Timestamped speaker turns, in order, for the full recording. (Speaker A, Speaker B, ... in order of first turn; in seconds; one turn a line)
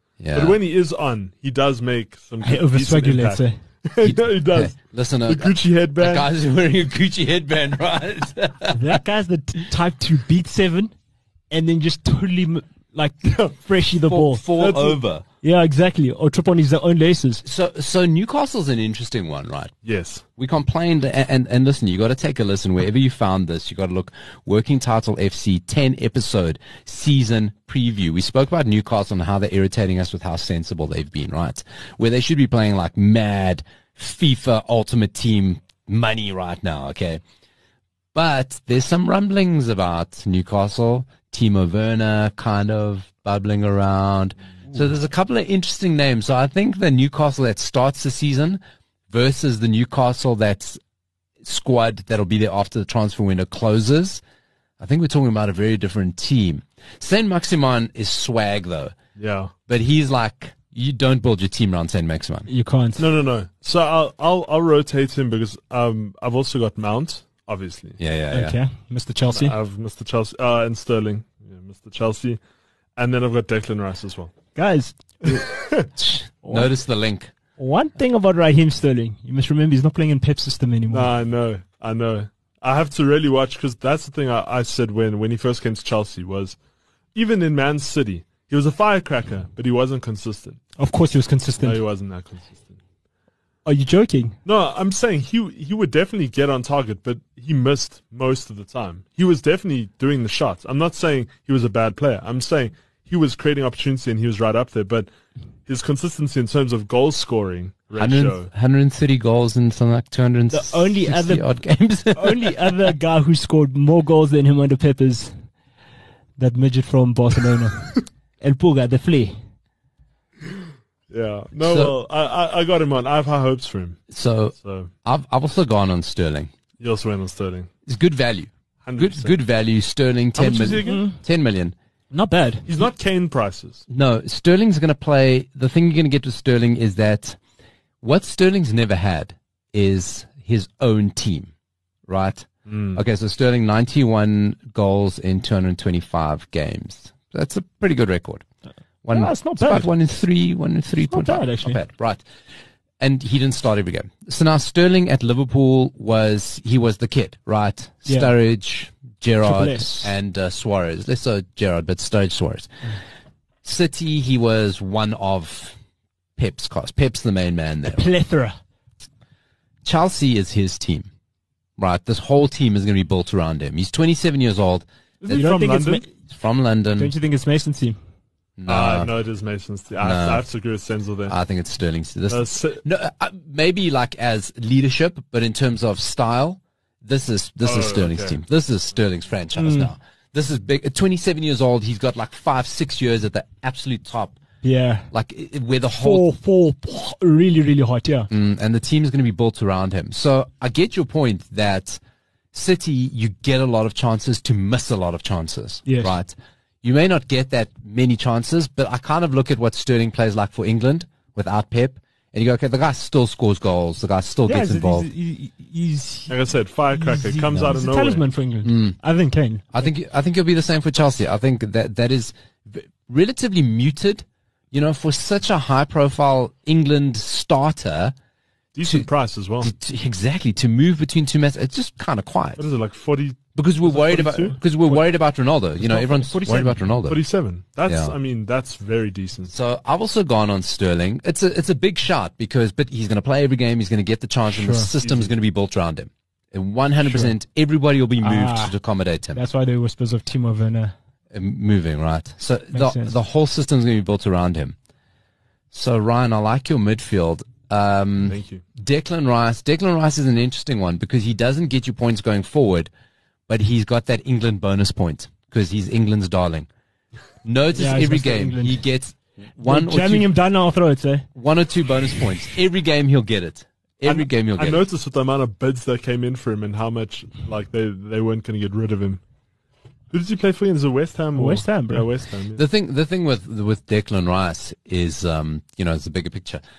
Speaker A: 0.2-0.6
Speaker B: 0.3-4.8
Speaker C: 2.4-3.6
Speaker A: 4.0-9.0
Speaker B: 5.3-6.3
Speaker C: 8.7-10.9
Speaker C: 11.5-14.4
Speaker A: 14.1-15.2
Speaker B: 14.5-15.0
Speaker C: 15.4-17.4
Speaker A: 17.4-19.7
Speaker B: 19.8-20.2
Speaker A: 20.4-37.2
Speaker A: 38.1-48.6
Speaker A: 49.1-50.8
Speaker A: 51.4-54.2
Speaker A: 54.8-59.0
Speaker B: 59.2-59.5
Speaker A: 59.7-62.5
Speaker C: 62.5-63.1
Speaker B: 63.0-68.0
Speaker A: 68.0-68.6
Speaker C: 68.3-69.6
Speaker B: 69.3-72.4
Speaker B: 73.0-74.3
Speaker C: 74.5-75.5
Speaker B: 75.2-75.9
Speaker A: 76.0-77.3
Speaker C: 76.4-76.7
Speaker C: 77.6-81.1
Speaker B: 80.9-86.6
Speaker B: 87.2-90.6
Speaker C: 90.8-91.8
Speaker B: 91.6-92.8
Speaker C: 93.7-94.4
Speaker B: 94.5-105.1
Speaker B: 105.7-108.5
Speaker A: 108.0-112.9
Speaker C: 110.5-111.5
Speaker C: 112.2-115.3
Speaker C: 116.4-119.4
Speaker B: 120.6-124.0
Speaker A: 121.6-122.0
Speaker A: 124.1-126.5
Speaker B: 124.6-124.9
Speaker B: 126.8-127.7
Speaker A: 127.9-131.8
Speaker B: 128.8-129.4
Speaker B: 130.4-131.0
Speaker C: 130.8-131.2
Speaker C: 132.1-132.7
Speaker B: 132.7-133.8
Speaker A: 133.9-137.4
Speaker A: 138.0-141.5
Speaker A: 142.1-148.4
Speaker B: 142.7-143.0
Speaker A: 149.0-152.2
Speaker C: 149.1-149.9
Speaker C: 151.1-151.8
Speaker A: 153.0-162.7
Speaker C: 158.1-158.3
Speaker C: 159.4-160.1
Speaker A: 163.6-165.8
Speaker A: 166.4-168.1
Speaker C: 167.9-168.6
Speaker A: 169.8-171.1
Speaker A: 171.8-175.4
Speaker B: 175.2-176.0
Speaker C: 175.3-176.1
Speaker A: 176.3-177.1
Speaker C: 177.0-178.0
Speaker A: 178.6-179.1
Speaker B: 178.7-181.3
Speaker A: 180.0-180.4
Speaker A: 181.3-194.4
Speaker B: 182.3-182.8
Speaker B: 187.6-188.4
Speaker C: 189.6-189.9
Speaker C: 194.6-195.1
Speaker A: 195.1-196.3
Speaker C: 195.9-198.3
Speaker A: 198.3-202.0
Speaker A: 202.5-215.1
Speaker C: 205.9-206.2
Speaker C: 214.5-216.4
Speaker B: 216.3-218.2
Speaker C: 216.9-219.7
Speaker A: 217.5-217.8
Speaker A: 218.6-218.9
Speaker A: 219.7-228.1
Speaker B: 228.8-229.7
Speaker A: 229.6-232.6
Speaker B: 232.6-234.6
Speaker A: 233.6-237.2
Speaker C: 235.8-236.8
Speaker B: 237.1-239.5
Speaker A: 237.9-238.2
Speaker A: 239.5-249.4
Speaker C: 244.5-244.9
Speaker B: 245.0-245.3
Speaker C: 247.0-247.3
Speaker C: 248.2-248.7
Speaker C: 249.3-250.9
Speaker A: 251.3-254.8
Speaker C: 252.7-253.2
Speaker A: 255.7-262.9
Speaker B: 258.2-258.6
Speaker A: 263.5-266.7
Speaker A: 267.4-270.3
Speaker C: 267.8-268.8
Speaker C: 269.7-271.3
Speaker A: 271.4-274.8
Speaker B: 274.0-279.2
Speaker B: 280.1-282.6
Speaker C: 281.4-282.1
Speaker A: 282.6-286.6